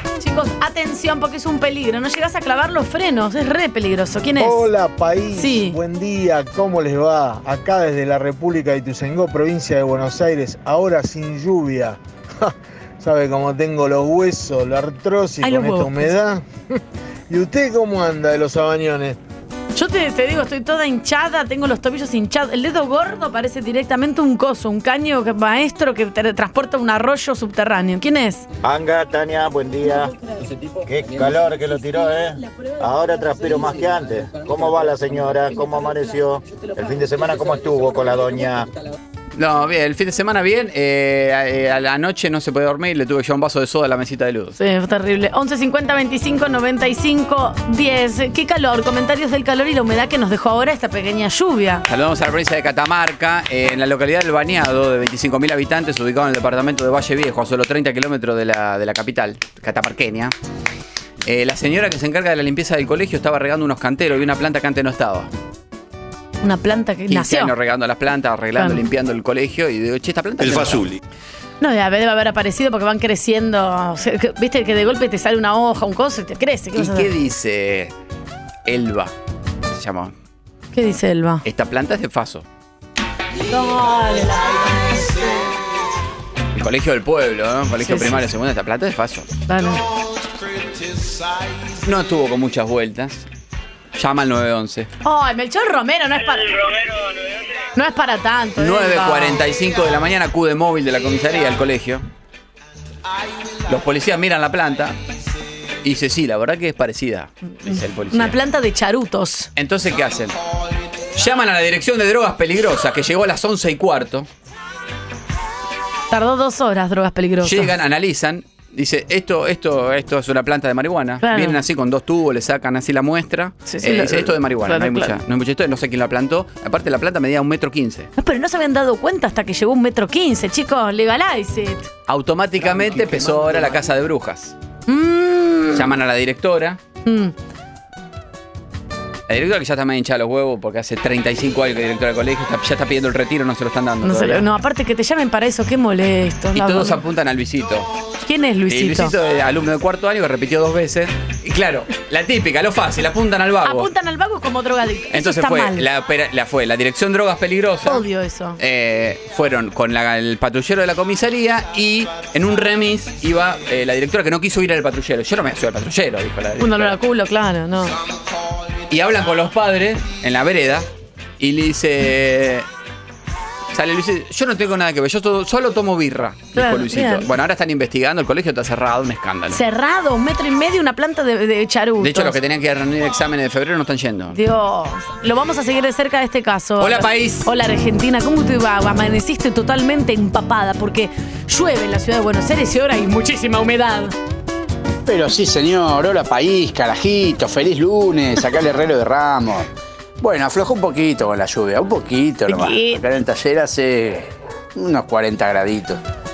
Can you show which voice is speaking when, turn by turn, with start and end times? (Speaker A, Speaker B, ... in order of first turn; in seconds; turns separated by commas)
Speaker A: 0.2-4.7, Speaker B: 4.4-16.6, Speaker A: 5.3-5.8, Speaker A: 15.4-16.1, Speaker B: 17.3-19.2, Speaker A: 19.8-28.5, Speaker C: 28.7-30.1, Speaker C: 30.9-32.2, Speaker C: 32.8-36.3, Speaker C: 36.8-38.6, Speaker D: 39.4-44.6, Speaker A: 44.6-51.9, Speaker D: 51.9-60.3, Speaker D: 61.2-65.3, Speaker A: 66.4-67.5, Speaker D: 67.1-71.0, Speaker A: 68.6-68.8, Speaker A: 71.6-77.1, Speaker D: 76.7-77.9, Speaker D: 78.7-79.1, Speaker D: 79.7-80.1, Speaker A: 80.7-81.4, Speaker D: 81.4-82.5, Speaker A: 83.5-85.3, Speaker D: 86.5-89.3, Speaker A: 87.8-88.3, Speaker A: 89.5-89.8, Speaker D: 91.8-93.3, Speaker D: 94.0-94.9, Speaker A: 95.0-96.6, Speaker A: 97.8-99.4, Speaker D: 98.6-102.1, Speaker D: 103.7-105.0, Speaker D: 105.8-108.4, Speaker A: 107.7-109.5, Speaker D: 109.6-110.4, Speaker D: 111.1-114.3, Speaker A: 116.1-117.7, Speaker D: 117.4-128.1, Speaker A: 121.2-121.6, Speaker A: 123.7-125.2, Speaker A: 128.2-131.9, Speaker D: 132.1-134.6, Speaker A: 134.9-135.9, Speaker D: 135.7-136.8, Speaker A: 137.1-137.3, Speaker D: 139.3-144.5, Speaker A: 144.0-147.0, Speaker D: 146.5-147.9, Speaker A: 148.2-149.2, Speaker D: 148.7-153.9, Speaker A: 153.6-155.9, Speaker D: 155.1-158.1, Speaker A: 157.9-158.6, Speaker D: 158.6-167.0, Speaker A: 166.6-167.9, Speaker D: 168.9-170.9, Speaker D: 171.4-172.7, Speaker D: 173.7-179.6, Speaker A: 176.6-177.3, Speaker A: 179.5-182.4, Speaker D: 182.0-184.4, Speaker A: 184.3-194.2, Speaker D: 186.8-187.5, Speaker E: 195.1-206.0, Speaker A: 202.5-203.0